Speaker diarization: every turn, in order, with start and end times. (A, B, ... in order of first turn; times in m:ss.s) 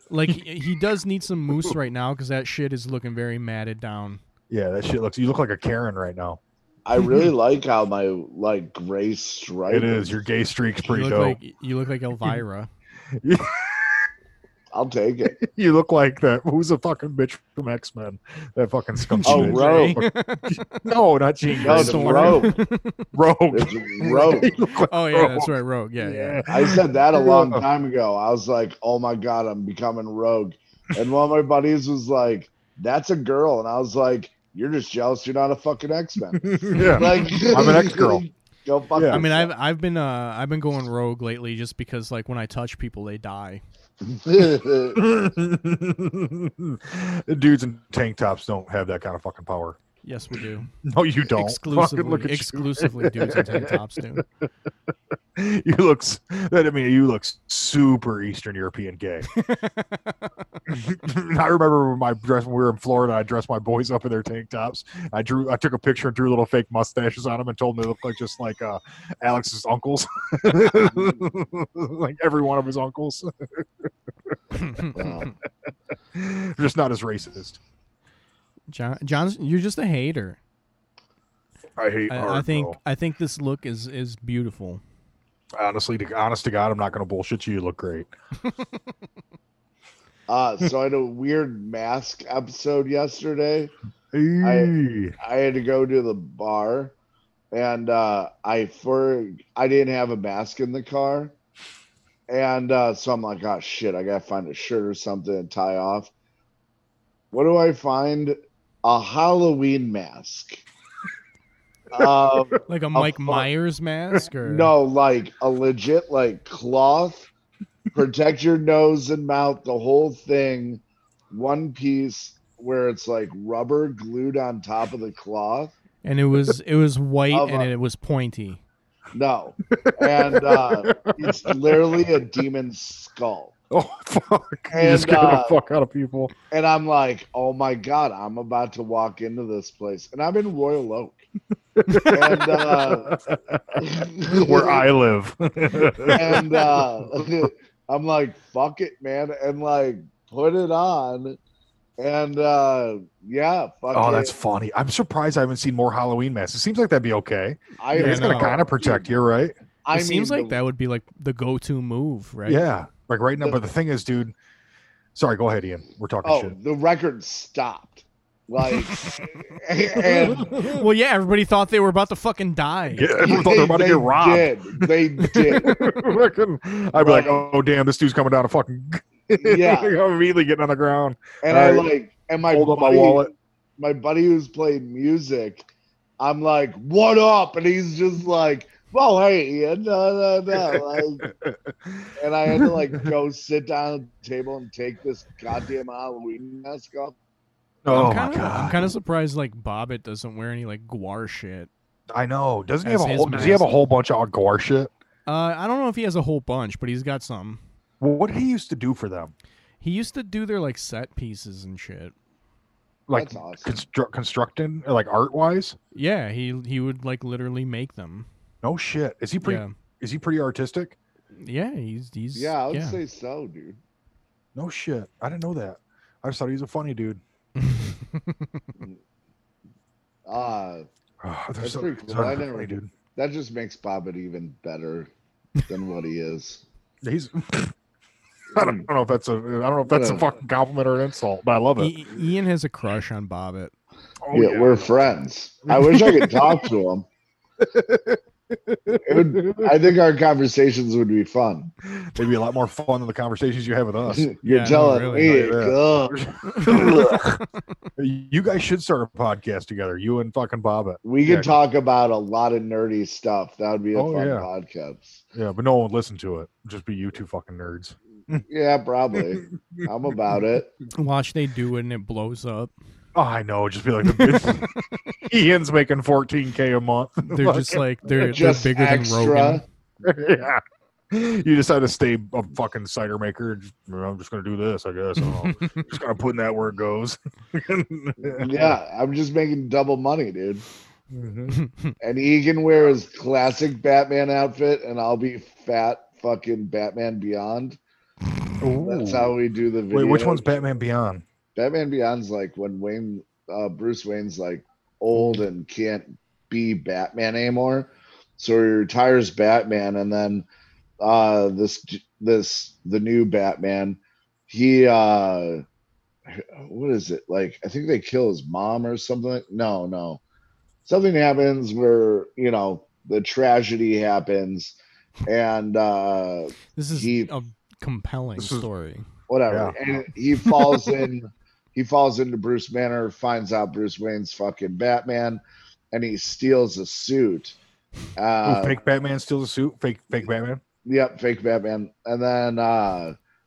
0:00.1-0:04.2 A
0:04.5-0:06.4 B
0:06.8-0:10.2 C
0:09.7-0:11.4 B
0:10.8-0:12.7 A
0:13.2-0:14.1 B
0:14.7-0:15.4 C
0:15.4-0:22.5 B
0:19.0-0:20.8 A
0:19.2-0:20.0 C
0:21.5-0:23.0 A
0:21.6-0:22.6 C
0:23.1-0:27.6 B
0:23.5-0:24.5 C
0:24.9-0:26.4 A
0:26.5-0:39.5 C
0:36.3-0:38.2 B
0:36.7-0:37.6 A
0:38.9-0:39.2 B
0:39.1-0:43.6 A
0:44.0-0:45.0 C
0:44.9-0:49.8 B
0:50.0-0:50.7 A
0:50.8-0:54.2 B
0:51.3-0:54.2 A
0:55.3-0:59.3 B
0:59.3-1:00.3 A
1:00.7-1:14.4 B
1:14.5-1:15.3 A
1:14.9-1:15.3 C
1:16.1-1:17.6 B
1:18.7-1:20.4 A
1:21.8-1:22.8 B
1:22.1-1:24.8 A
1:25.5-1:28.1 B
1:30.3-1:33.7 C
1:34.1-1:35.1 B
1:34.4-1:36.9 C
1:37.5-1:41.3 C
1:42.3-1:46.1 C
1:47.3-1:50.6 C
1:51.9-1:53.5 C
1:51.9-1:52.6 B
1:52.7-1:54.7 A
1:54.4-1:57.3 C
1:57.9-2:05.7 C
2:06.0-2:08.6 A
2:07.3-2:07.7 C
2:09.1-2:13.6 C
2:09.7-2:11.8 B
2:13.7-2:16.3 B
2:14.7-2:15.6 C
2:16.5-2:21.2 C
2:21.8-2:27.5 B
2:22.0-2:23.2 C
2:23.8-2:24.9 C
2:26.0-2:31.4 C
2:32.0-2:34.3 C
2:33.9-2:39.6 B
2:37.8-2:39.1 C
2:37.9-2:38.5 A
2:39.8-2:40.6 C
2:39.9-2:42.6 A
2:42.4-2:44.3 B
2:45.1-2:46.5 B
2:46.2-2:50.6 C
2:50.1-2:50.9 B
2:50.4-2:53.2 A
2:52.9-2:54.9 B
2:53.2-2:55.8 C
2:55.5-3:01.9 B
2:56.9-2:57.4 C
2:59.4-3:00.0 C
3:01.4-3:03.3 C
3:02.5-3:03.3 B
3:03.8-3:05.6 C
3:06.2-3:11.3 C
3:10.7-3:13.1 B
3:12.2-3:17.2 C
3:17.8-3:18.9 B
3:17.9-3:21.7 A
3:22.1-3:24.9 B
3:22.8-3:23.7 A
3:25.2-3:27.6 A
3:28.0-3:29.3 B
3:29.8-3:32.1 A
3:33.1-3:35.8 B
3:33.1-3:33.7 C
3:35.9-3:38.3 A
3:38.6-3:41.0 B
3:39.4-3:39.7 A
3:41.3-3:43.0 A
3:42.3-3:43.8 C
3:44.5-3:47.2 B
3:47.6-3:48.7 A
3:50.2-3:50.9 C
3:51.2-3:52.9 B
3:51.6-3:55.1 C
3:55.6-3:56.6 C
3:57.0-3:57.7 B
3:58.5-4:02.0 B
3:58.6-3:58.8 C
3:59.9-4:00.2 C
4:01.8-4:03.7 A
4:04.2-4:04.9 B
4:04.3-4:07.0 C
4:05.7-4:06.7 B
4:07.6-4:09.8 B
4:09.0-4:11.7 C
4:11.8-4:14.3 B
4:14.1-4:17.2 C
4:14.4-4:15.4 A
4:15.1-4:17.4 B
4:16.5-4:17.6 A
4:18.0-4:21.5 B
4:21.0-4:25.2 C
4:23.9-4:24.5 B
4:25.3-4:28.4 B
4:28.4-4:30.7 C
4:29.3-4:29.9 B
4:30.9-4:32.7 A
4:33.1-4:37.8 B
4:37.2-4:39.6 A
4:38.3-4:39.6 C
4:40.0-4:48.7 B
4:45.2-4:45.7 A
4:48.3-4:50.6 C
4:51.1-4:51.6 B
4:51.5-4:51.9 A
4:52.0-4:57.8 C
4:58.6-4:59.4 B
4:58.8-5:00.4 C
4:59.9-5:01.2 B
5:01.6-5:10.4 C
5:05.2-5:05.4 B
5:11.0-5:15.6 C
5:16.3-5:20.2 C
5:20.8-5:27.3 C
5:26.8-5:29.0 A
5:28.4-5:28.6 B
5:29.3-5:35.4 C
5:29.5-5:29.8 B
5:35.9-5:37.6 C
5:38.2-5:38.8 C
5:38.4-5:40.6 B
5:40.8-5:43.1 C